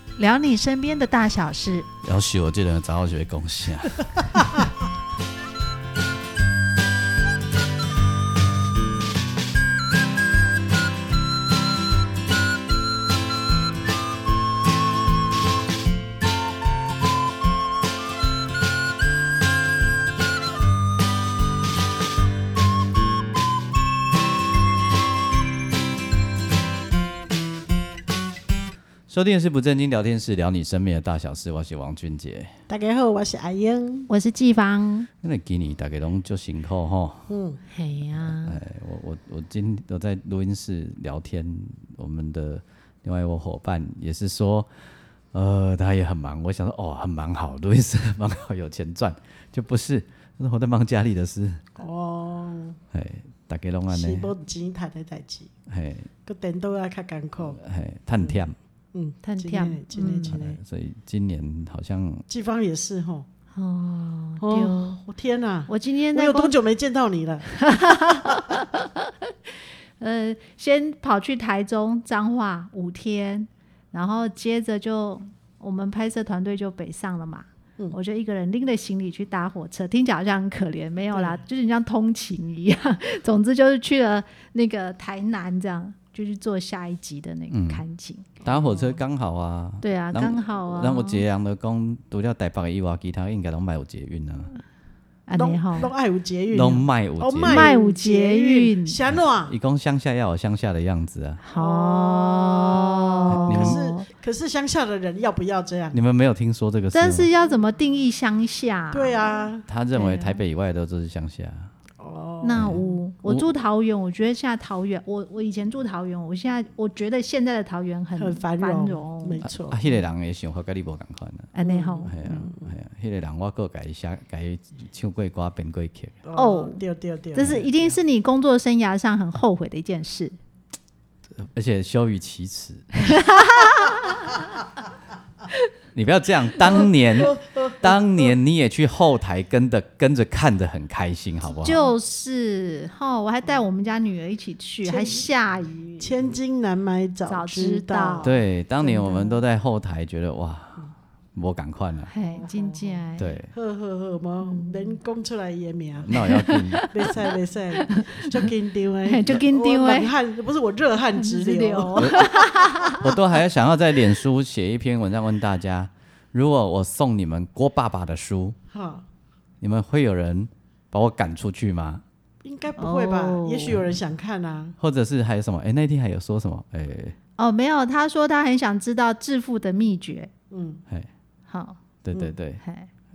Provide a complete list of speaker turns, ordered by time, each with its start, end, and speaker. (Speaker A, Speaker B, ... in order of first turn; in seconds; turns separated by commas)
Speaker A: 0.2-1.9, Speaker B: 2.0-4.4, Speaker B: 29.1-32.5, Speaker C: 32.7-34.1, Speaker A: 34.1-35.1, Speaker B: 35.2-37.3, Speaker C: 37.3-37.6, Speaker A: 37.7-38.6, Speaker B: 38.2-44.7, Speaker B: 45.3-51.6, Speaker C: 51.8-52.8, Speaker B: 52.9-54.3, Speaker C: 53.9-55.5, Speaker B: 55.7-56.1, Speaker C: 56.2-57.6, Speaker B: 57.4-58.5, Speaker C: 58.9-60.6, Speaker A: 59.2-60.4, Speaker B: 60.3-62.2, Speaker C: 62.3-63.2, Speaker A: 63.5-65.0, Speaker C: 64.4-68.4, Speaker A: 65.7-66.5, Speaker A: 67.6-69.3, Speaker A: 70.0-88.3, Speaker C: 81.1-81.4, Speaker B: 87.5-87.8, Speaker C: 88.4-89.0, Speaker B: 88.4-94.5, Speaker A: 89.8-91.2, Speaker A: 95.3-95.9, Speaker C: 95.4-99.5, Speaker B: 96.5-97.7, Speaker A: 97.4-99.0, Speaker B: 99.1-101.4, Speaker A: 101.4-104.1, Speaker C: 101.5-106.0, Speaker B: 103.3-103.8, Speaker B: 105.9-107.3, Speaker A: 106.9-110.4, Speaker C: 108.9-109.7, Speaker B: 109.7-111.7, Speaker C: 112.0-113.0, Speaker A: 112.4-119.5, Speaker B: 112.5-113.5, Speaker C: 118.2-119.8, Speaker B: 119.4-121.5, Speaker A: 121.5-122.1, Speaker C: 121.6-122.7, Speaker B: 122.0-126.2, Speaker C: 126.2-127.9, Speaker A: 126.4-126.8, Speaker A: 127.3-130.4, Speaker B: 131.4-133.1, Speaker A: 133.0-134.4, Speaker B: 135.9-141.8, Speaker C: 137.2-137.8, Speaker A: 141.5-146.1, Speaker C: 144.8-145.3, Speaker C: 146.0-148.4, Speaker A: 147.2-148.3, Speaker B: 148.2-152.1, Speaker A: 148.8-149.4, Speaker A: 152.1-153.3, Speaker C: 152.2-156.2, Speaker B: 153.2-153.5, Speaker A: 154.4-155.0, Speaker B: 156.0-156.9, Speaker A: 156.1-157.2, Speaker C: 156.9-162.6, Speaker A: 157.8-158.5, Speaker A: 159.1-160.1, Speaker A: 161.2-163.1, Speaker B: 162.0-168.6, Speaker C: 168.7-169.1, Speaker B: 169.6-172.0, Speaker C: 172.4-174.8, Speaker A: 172.8-173.8, Speaker B: 174.8-177.2, Speaker A: 177.4-180.3, Speaker C: 180.5-180.8, Speaker A: 181.5-181.8, Speaker B: 182.0-182.6, Speaker A: 182.6-182.9